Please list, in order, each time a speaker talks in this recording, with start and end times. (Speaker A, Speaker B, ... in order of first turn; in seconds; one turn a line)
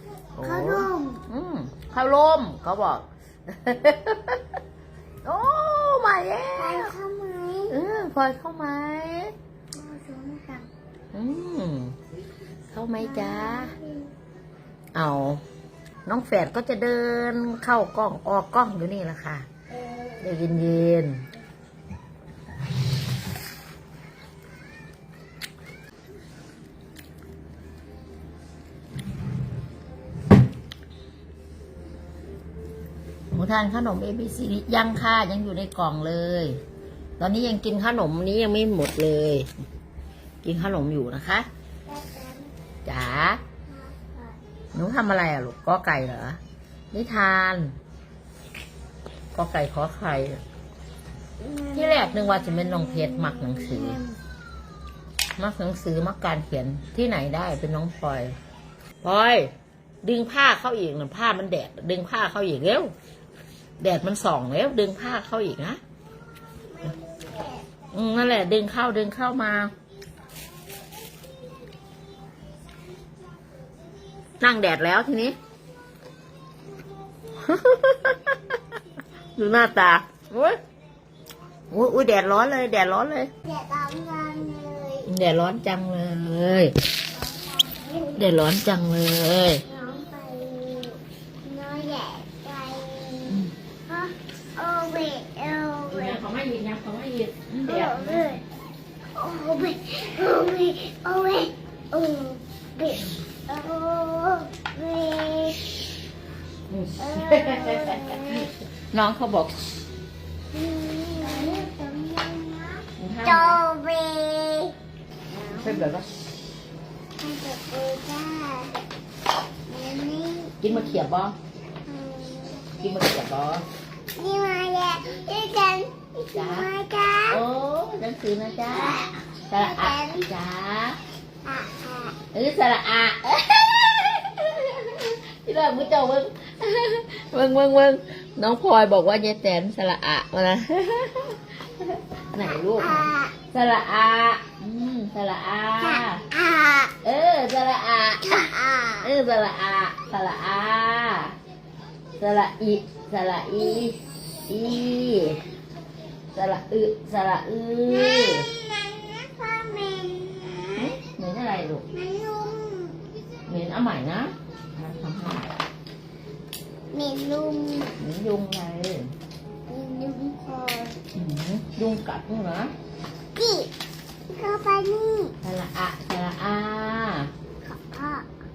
Speaker A: 0.4-1.2
Speaker B: 0.4-4.5
Speaker B: 5.2-7.0
Speaker A: 6.6-7.8
Speaker B: 7.7-9.3
Speaker A: 9.8-10.7
Speaker B: 11.1-11.9
Speaker B: 12.7-13.7
Speaker A: 13.0-14.1
Speaker B: 14.9-15.4
Speaker B: 16.1-19.5
Speaker A: 19.8-20.5
Speaker B: 20.2-21.2
Speaker B: 33.3-36.6
Speaker B: 37.2-39.5
Speaker B: 40.4-41.5
Speaker A: 41.9-42.5
Speaker B: 42.9-43.4
Speaker A: 43.7-44.4
Speaker B: 44.7-46.4
Speaker B: 46.9-47.8
Speaker B: 49.4-50.4
Speaker A: 51.4-54.2
Speaker B: 51.7-54.0
Speaker B: 55.4-58.4
Speaker B: 59.0-59.5
Speaker B: 60.0-62.9
Speaker B: 63.8-65.8
Speaker A: 66.7-67.7
Speaker B: 67.9-69.7
Speaker B: 74.4-75.3
Speaker B: 77.4-78.4
Speaker B: 79.4-80.6
Speaker B: 81.7-83.3
Speaker A: 83.4-85.1
Speaker B: 85.1-86.7
Speaker A: 87.2-88.3
Speaker B: 88.2-89.6
Speaker A: 89.7-96.2
Speaker B: 95.9-98.4
Speaker A: 97.6-98.4
Speaker A: 99.2-105.7
Speaker B: 106.7-109.9
Speaker A: 107.0-108.5
Speaker A: 110.5-114.7
Speaker B: 113.0-113.6
Speaker A: 115.3-115.9
Speaker B: 115.4-116.1
Speaker A: 117.2-118.8
Speaker A: 119.7-121.0
Speaker B: 120.6-121.3
Speaker A: 121.8-122.7
Speaker B: 122.8-123.7
Speaker A: 124.2-127.4
Speaker B: 126.3-126.7
Speaker B: 127.3-131.0
Speaker A: 128.7-130.3
Speaker A: 131.4-132.2
Speaker B: 132.3-146.2
Speaker A: 142.8-143.3
Speaker A: 145.8-146.9
Speaker B: 147.0-148.4
Speaker A: 148.2-149.1
Speaker B: 149.0-151.4
Speaker B: 152.2-155.4
Speaker B: 156.3-158.5
Speaker A: 157.9-161.0
Speaker B: 160.8-161.8
Speaker A: 161.9-163.0
Speaker B: 163.5-165.5
Speaker A: 166.9-168.0
Speaker B: 168.0-169.1
Speaker A: 169.7-171.0
Speaker B: 171.2-172.7
Speaker A: 173.3-173.7
Speaker A: 174.3-175.3
Speaker B: 175.4-177.3
Speaker A: 177.7-178.3